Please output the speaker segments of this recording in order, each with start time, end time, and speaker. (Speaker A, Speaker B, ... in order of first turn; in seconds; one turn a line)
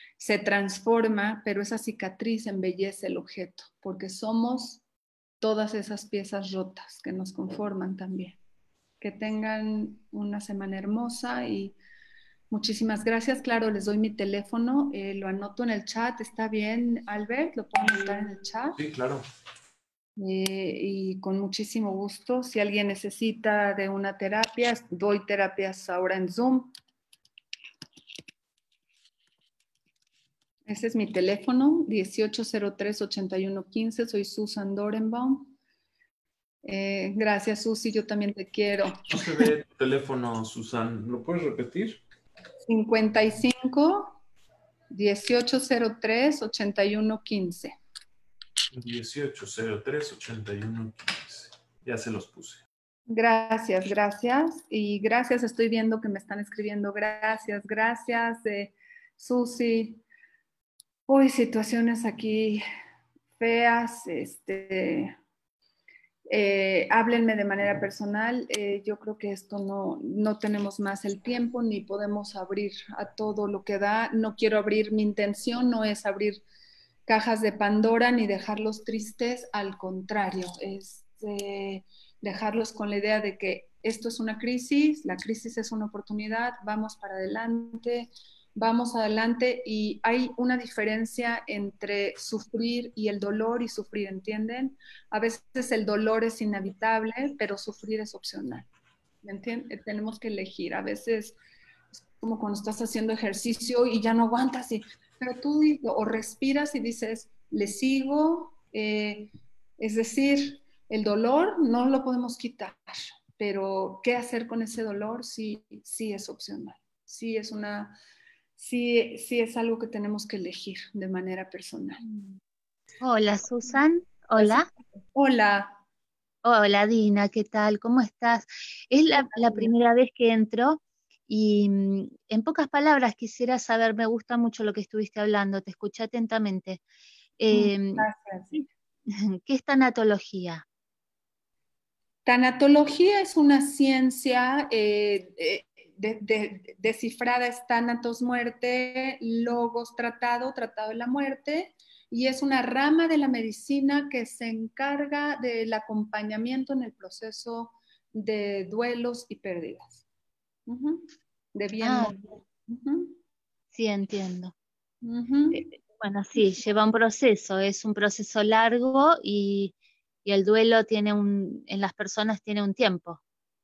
Speaker A: 0.2-4.8
Speaker A: 5.4-8.4
Speaker A: 9.0-11.8
Speaker A: 12.5-18.8
Speaker B: 18.8-19.3
Speaker A: 20.2-26.7
Speaker A: 30.7-35.5
Speaker A: 36.6-39.5
Speaker B: 39.1-42.0
Speaker A: 42.7-44.2
Speaker A: 44.9-47.8
Speaker B: 48.7-52.6
Speaker A: 53.1-60.0
Speaker A: 61.1-62.6
Speaker A: 63.4-65.2
Speaker A: 66.3-76.4
Speaker A: 77.1-98.7
Speaker A: 99.2-101.4
Speaker A: 101.9-118.0
Speaker A: 118.6-122.0
Speaker C: 122.0-122.4
Speaker C: 123.0-124.7
Speaker A: 124.4-125.8
Speaker C: 126.4-136.8
Speaker A: 129.2-129.7
Speaker C: 137.4-138.1
Speaker A: 137.5-138.6
Speaker C: 138.6-140.6
Speaker A: 142.2-160.0
Speaker A: 160.7-163.2
Speaker C: 161.8-162.2
Speaker C: 163.7-164.5
Speaker A: 165.0-165.7
Speaker C: 165.5-169.7
Speaker C: 170.2-173.2